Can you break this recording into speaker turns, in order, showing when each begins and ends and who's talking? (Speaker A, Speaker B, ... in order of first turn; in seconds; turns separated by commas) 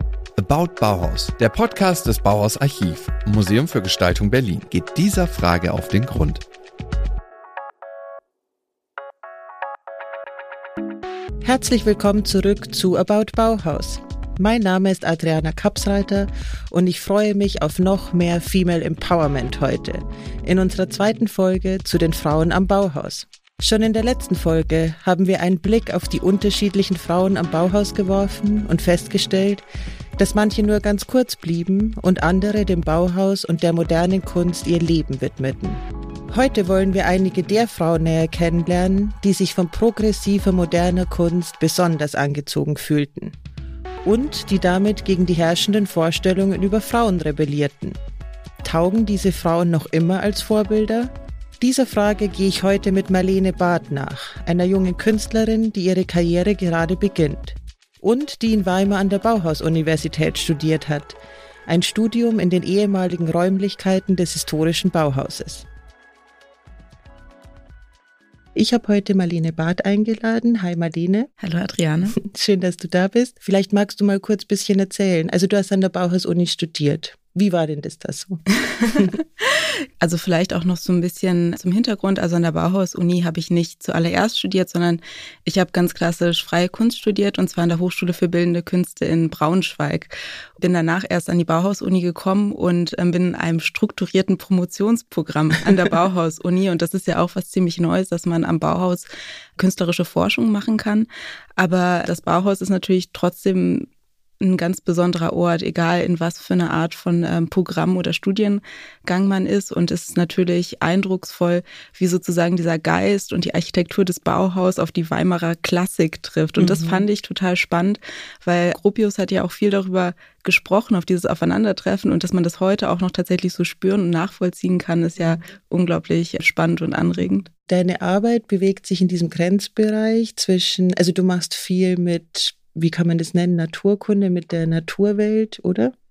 Speaker A: 0.4-6.4, Speaker B: 11.4-29.6, Speaker B: 30.2-43.4, Speaker B: 44.0-48.0, Speaker B: 48.6-65.7, Speaker B: 68.5-71.3, Speaker C: 71.4-72.2, Speaker B: 72.1-79.1, Speaker C: 78.7-103.9, Speaker C: 104.4-127.5, Speaker B: 116.6-117.0, Speaker B: 127.5-135.9